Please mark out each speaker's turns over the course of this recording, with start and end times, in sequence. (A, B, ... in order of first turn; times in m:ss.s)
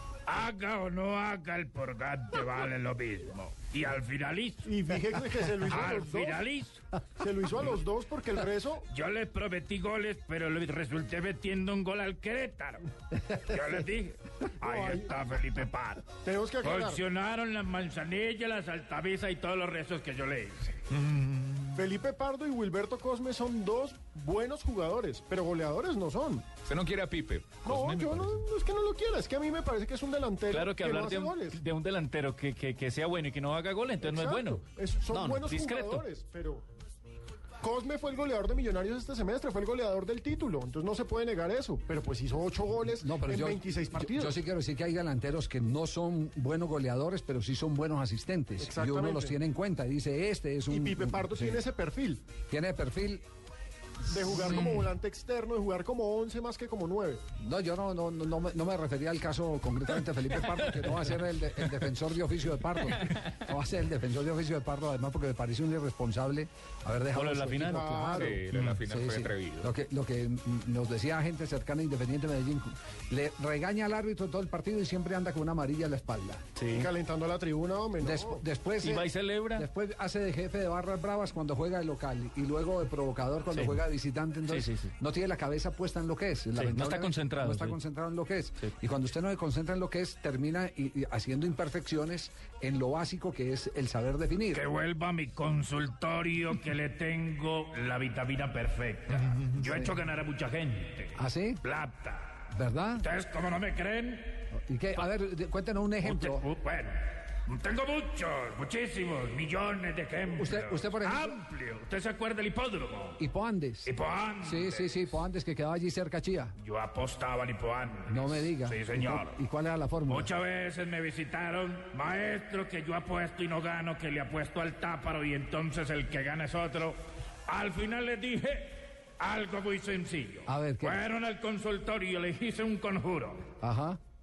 0:00.3-0:04.7 A
0:04.6-0:06.4 B
0:05.6-0:06.8 A
0:07.2-0:08.9 B
0:08.9-0:16.1 A
0:14.6-0:15.1 B
0:16.2-0:17.0 B
0:16.6-0:20.9 A
0:21.1-0:21.7 C
0:21.7-0:26.5 B
0:26.6-0:28.4 C
0:27.6-0:31.6 B
0:30.5-0:36.0 D
0:34.0-0:36.6 B
0:37.6-0:44.4 B
0:42.8-0:51.6 E
0:48.6-0:49.4 B
0:50.7-0:52.2 B
0:52.5-0:53.2 E
0:54.1-0:57.2 B
0:57.4-1:16.4 E
1:07.1-1:07.8 D
1:07.6-1:08.4 B
1:08.2-1:09.7 C
1:16.6-1:16.9 D
1:16.7-1:18.4 B
1:18.0-1:34.7 E
1:18.8-1:19.7 D
1:24.5-1:24.9 D
1:26.6-1:27.8 D
1:34.5-1:45.1 A
1:39.6-1:39.9 E
1:41.2-1:41.6 E
1:42.5-1:43.1 E
1:44.6-1:46.5 E
1:46.0-1:53.2 A
1:50.4-1:51.4 E
1:53.2-1:56.6 E
1:53.8-1:55.2 A
1:56.6-1:59.4 A
1:58.1-2:00.3 E
2:00.1-2:13.5 A
2:10.5-2:11.0 E
2:13.6-2:14.0 E